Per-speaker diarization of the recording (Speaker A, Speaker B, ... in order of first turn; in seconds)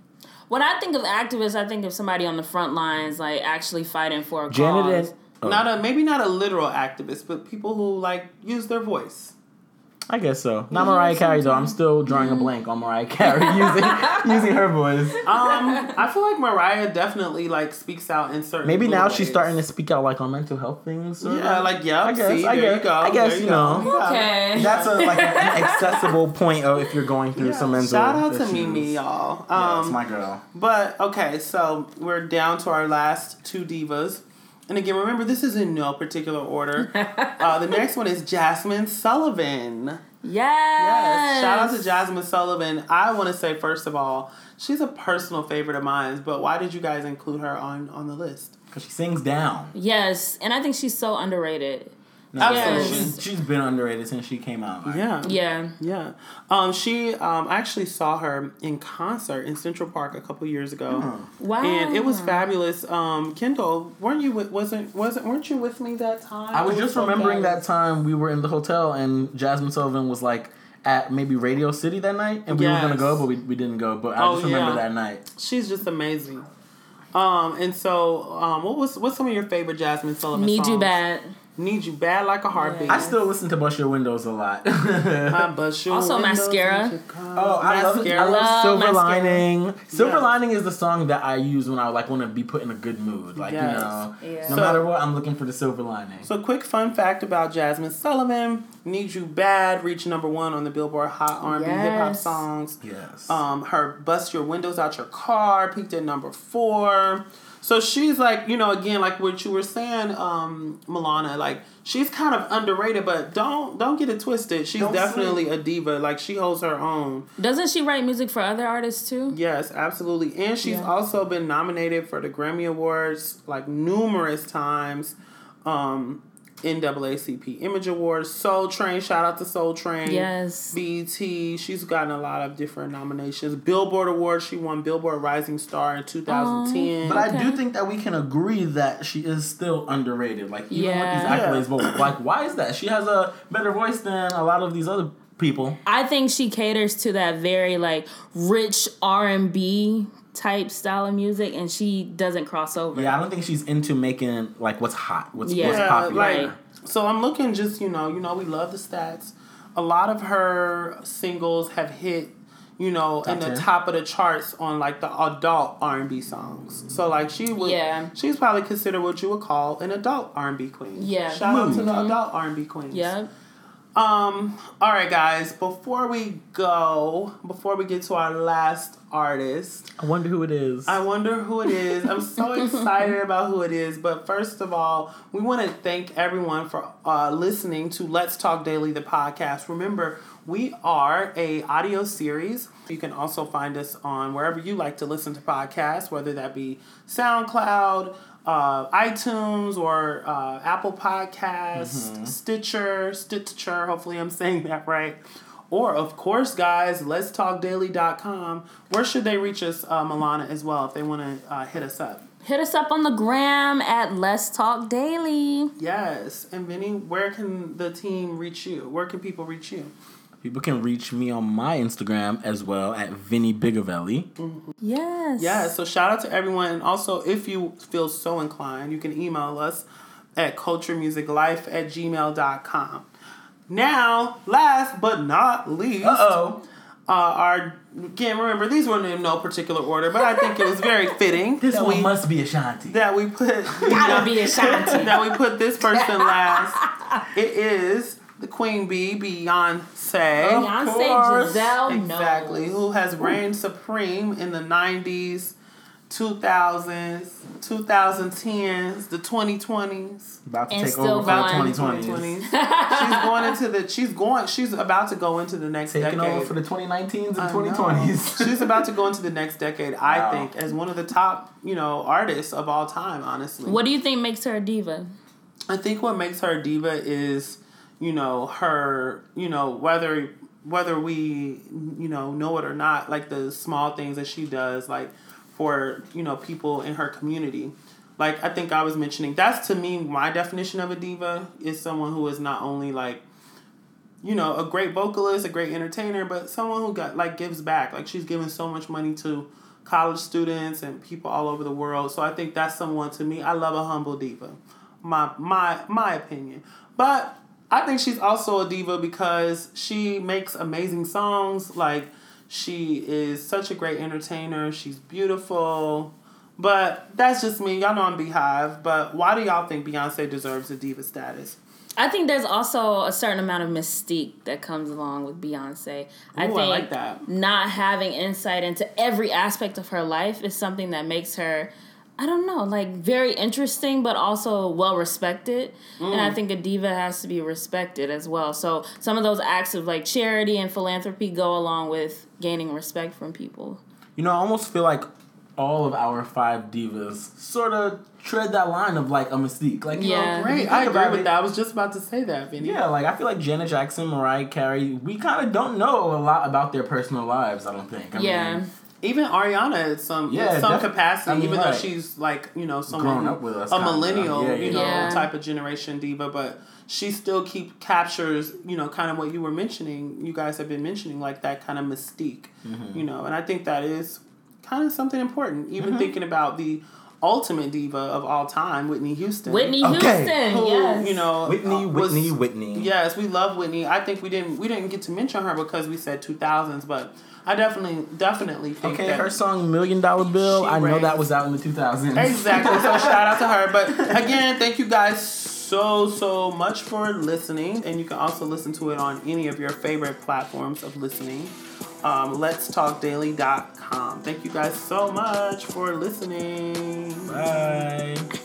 Speaker A: 0.5-5.2, 10.7-12.5, 13.2-14.5, 15.3-15.9, 23.7-26.1, 36.8-37.5, 40.2-41.9, 49.7-53.2, 55.2-55.7, 61.4-62.5, 80.3-81.3, 82.5-83.2, 85.9-86.9, 88.1-89.5, 94.2-94.6, 101.4-102.4, 117.4-119.4, 120.6-120.9, 130.0-130.8, 136.3-137.6, 140.7-141.4, 145.8-153.2, 155.4-156.5, 167.6-168.1, 170.9-172.2, 172.9-173.3, 182.6-183.1, 212.4-215.7, 224.8-225.7, 240.2-240.9, 243.8-245.3, 245.9-247.2, 250.5-252.8, 260.7-261.8, 262.4-263.5, 273.6-275.1, 322.0-343.8, 349.9-350.6, 358.1-358.7, 364.7-365.3, 379.4-381.2
Speaker B: 4.5-5.7, 10.1-15.2, 18.6-23.9, 24.5-29.0, 29.5-30.4, 48.7-49.7, 52.3-55.0, 60.9-61.3, 66.5-75.2, 82.9-85.5, 87.3-96.3, 102.8-103.4, 114.8-115.4, 137.0-145.8, 152.9-156.6, 163.2-163.7, 171.4-171.9, 180.0-181.0, 201.7-202.3, 220.4-224.3, 236.0-236.6, 241.6-243.0, 243.8-245.0, 250.4-251.8, 260.4-262.4, 265.9-268.9, 270.0-270.5, 344.1-351.3, 352.6-358.6, 360.3-361.9, 362.9-365.2, 372.6-373.0, 375.8-376.1, 379.8-380.4, 381.4-382.9, 388.8-393.4, 407.3-408.3
Speaker C: 5.4-9.3, 15.2-19.6, 21.2-25.1, 27.3-30.0, 30.5-40.0, 40.8-48.5, 52.4-53.2, 54.8-61.1, 61.6-67.6, 72.5-73.3, 74.2-76.5, 77.1-81.0, 81.6-83.2, 85.3-88.4, 89.9-90.3, 93.3-94.9, 96.2-117.3, 119.3-137.2, 141.2-142.1, 155.5-173.1, 173.9-179.9, 180.8-212.2, 215.8-219.9, 224.4-224.7, 225.4-229.8, 230.4-233.1, 233.7-236.4, 237.1-242.1, 242.8-250.7, 251.8-255.6, 256.1-260.4, 261.2-266.5, 267.4-273.8, 275.7-293.2, 294.2-321.6, 326.3-327.2, 336.0-336.4, 350.3-352.8, 359.0-379.9, 380.4-389.3, 390.3-391.2, 392.1-407.9